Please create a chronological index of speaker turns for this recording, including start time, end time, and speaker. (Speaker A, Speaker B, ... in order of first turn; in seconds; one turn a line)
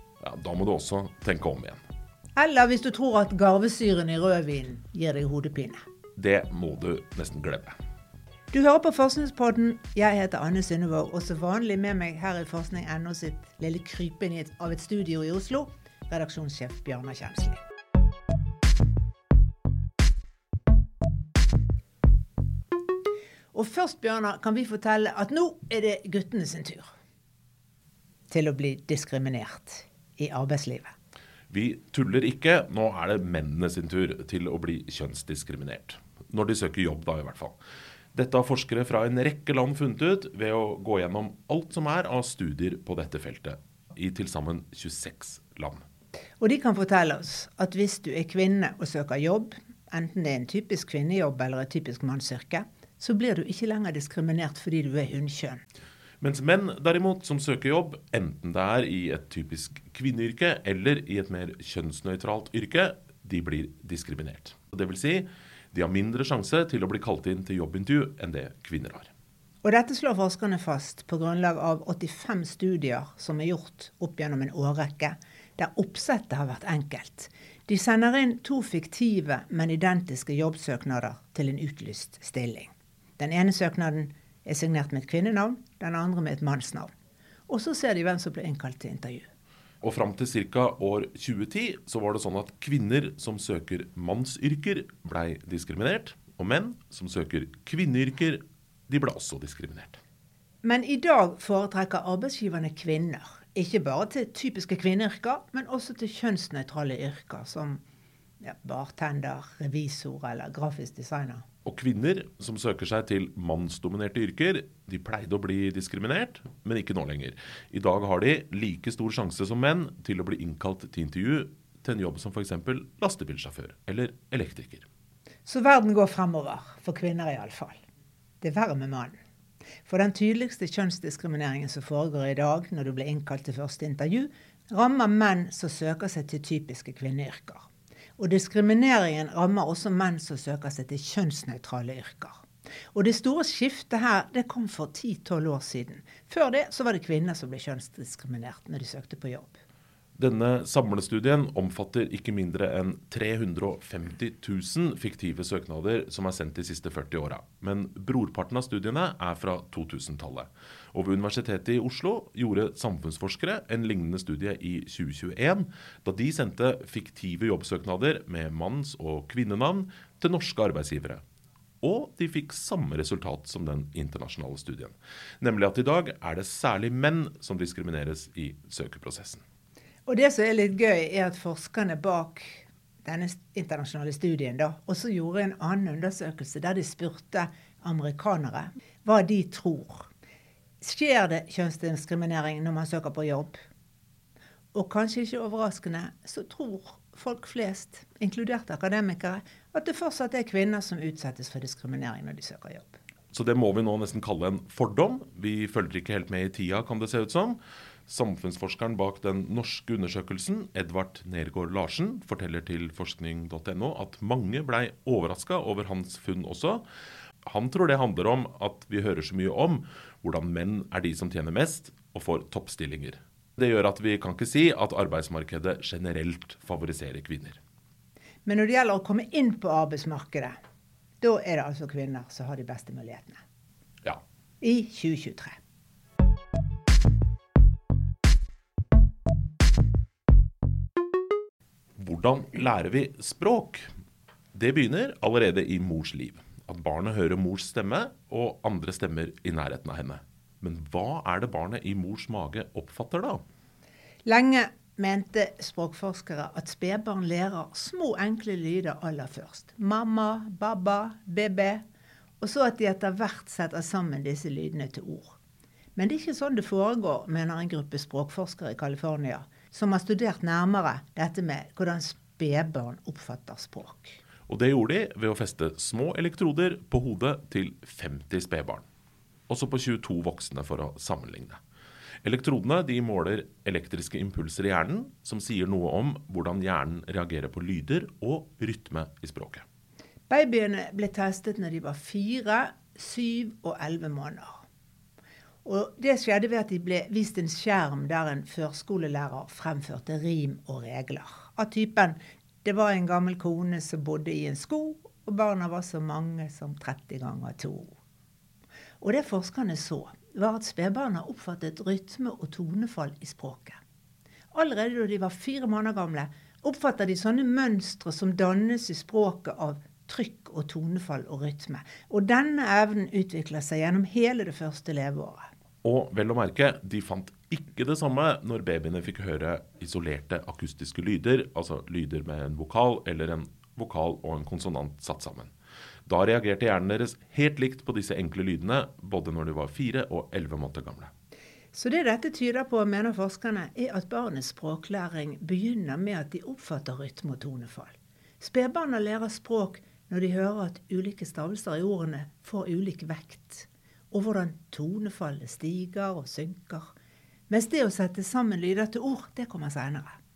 Speaker A: 0.2-1.8
Speaker B: 2.4-5.8
Speaker A: 6.2-7.7
Speaker B: 8.5-17.6
Speaker B: 23.5-26.9
Speaker B: 28.3-30.9
Speaker A: 31.5-37.5
Speaker A: 38.1-45.8
Speaker B: 46.4-55.6
Speaker A: 56.2-69.1
Speaker B: 69.6-86.9
Speaker B: 87.5-89.3
Speaker A: 89.8-100.0
Speaker B: 100.6-107.8
Speaker B: 108.4-111.4
Speaker A: 111.6-124.8
Speaker B: 125.5-127.8
Speaker B: 128.4-129.1
Speaker B: 129.8-142.4
Speaker B: 142.9-149.6
Speaker A: 150.2-171.2
Speaker A: 171.8-179.4
Speaker B: 180.1-190.1
Speaker B: 190.8-193.6
Speaker B: 194.7-203.0
Speaker A: 203.3-216.8
Speaker A: 217.4-227.6
Speaker B: 228.4-230.6
Speaker B: 231.2-233.4
Speaker B: 234.6-235.6
Speaker A: 242.0-243.9
Speaker A: 244.5-253.4
Speaker B: 254.2-261.8
Speaker B: 262.4-265.4
Speaker B: 265.9-274.2
Speaker A: 274.5-278.9
Speaker A: 279.5-281.6
Speaker A: 282.2-289.6
Speaker B: 290.3-294.6
Speaker B: 295.6-307.9
Speaker B: 309.0-313.8
Speaker B: 314.5-325.5
Speaker A: 325.8-335.5
Speaker A: 336.1-341.1
Speaker B: 341.7-356.9
Speaker B: 357.5-360.2